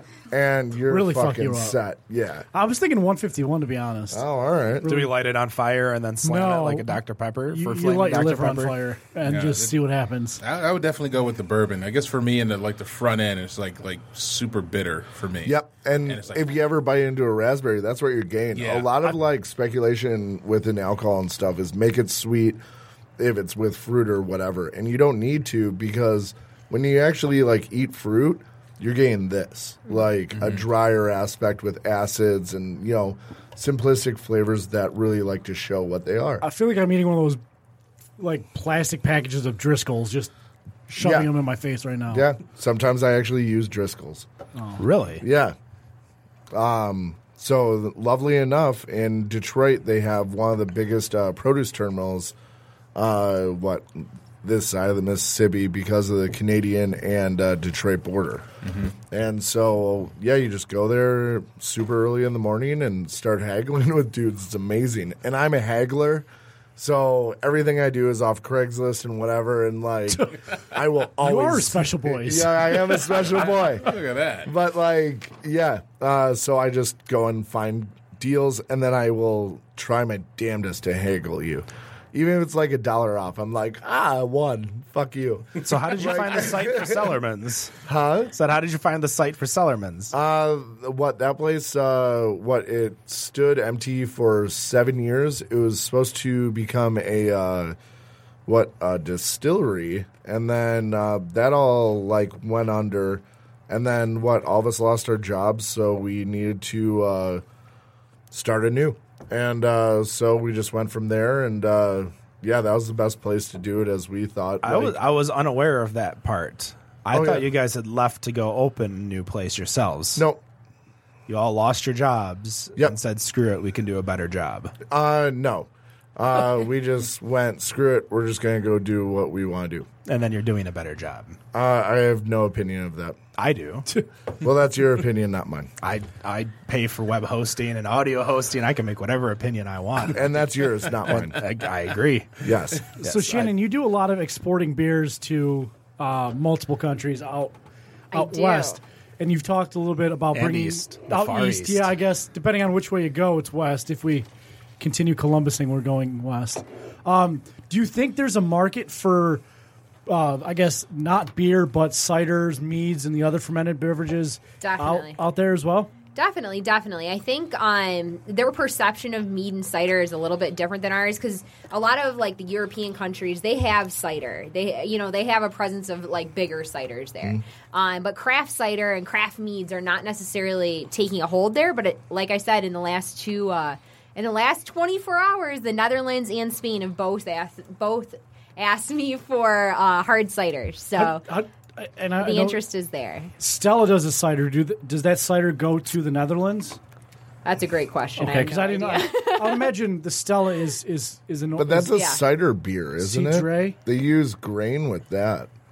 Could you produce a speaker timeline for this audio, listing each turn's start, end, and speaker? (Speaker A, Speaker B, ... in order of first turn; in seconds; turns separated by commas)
Speaker A: 0.3-2.5, Speaker B: 0.9-1.8, Speaker B: 2.5-4.2, Speaker A: 4.1-4.9, Speaker B: 4.8-5.2, Speaker C: 4.9-8.8, Speaker B: 6.2-7.0, Speaker B: 7.5-10.4, Speaker D: 9.2-9.8, Speaker D: 10.4-16.6, Speaker A: 15.4-22.6, Speaker D: 18.6-19.1, Speaker A: 23.2-36.5, Speaker D: 30.4-30.6, Speaker B: 36.4-37.4, Speaker B: 38.2-40.3, Speaker B: 40.9-42.3, Speaker A: 41.0-41.3, Speaker A: 42.1-44.3, Speaker B: 44.6-44.8, Speaker C: 44.8-45.2, Speaker A: 45.2-45.6, Speaker A: 46.5-52.3, Speaker A: 53.0-58.5, Speaker A: 59.1-87.1, Speaker B: 70.1-70.3, Speaker B: 71.2-72.8, Speaker D: 73.1-74.5, Speaker C: 85.6-87.8, Speaker A: 87.8-88.3, Speaker C: 88.3-90.1, Speaker A: 90.1-97.8, Speaker A: 98.5-107.4, Speaker A: 108.3-115.0, Speaker C: 114.6-120.2, Speaker A: 117.1-117.5, Speaker A: 120.2-120.4, Speaker C: 121.3-124.7, Speaker A: 124.9-129.9, Speaker C: 130.1-131.4, Speaker A: 131.5-133.2, Speaker C: 133.4-133.9, Speaker A: 134.4-135.7, Speaker C: 135.8-140.3, Speaker A: 140.1-141.4, Speaker C: 141.1-143.5, Speaker A: 142.4-142.9, Speaker B: 143.0-147.6, Speaker E: 148.1-148.8, Speaker B: 148.1-154.3, Speaker C: 150.3-151.9, Speaker B: 154.8-159.4, Speaker B: 160.1-165.9, Speaker E: 164.6-165.2, Speaker E: 166.1-191.2, Speaker B: 191.0-192.6, Speaker E: 192.2-193.3, Speaker B: 193.4-196.8, Speaker E: 197.4-199.7, Speaker B: 198.2-202.0, Speaker A: 201.6-205.5, Speaker E: 201.9-202.2, Speaker B: 203.0-203.8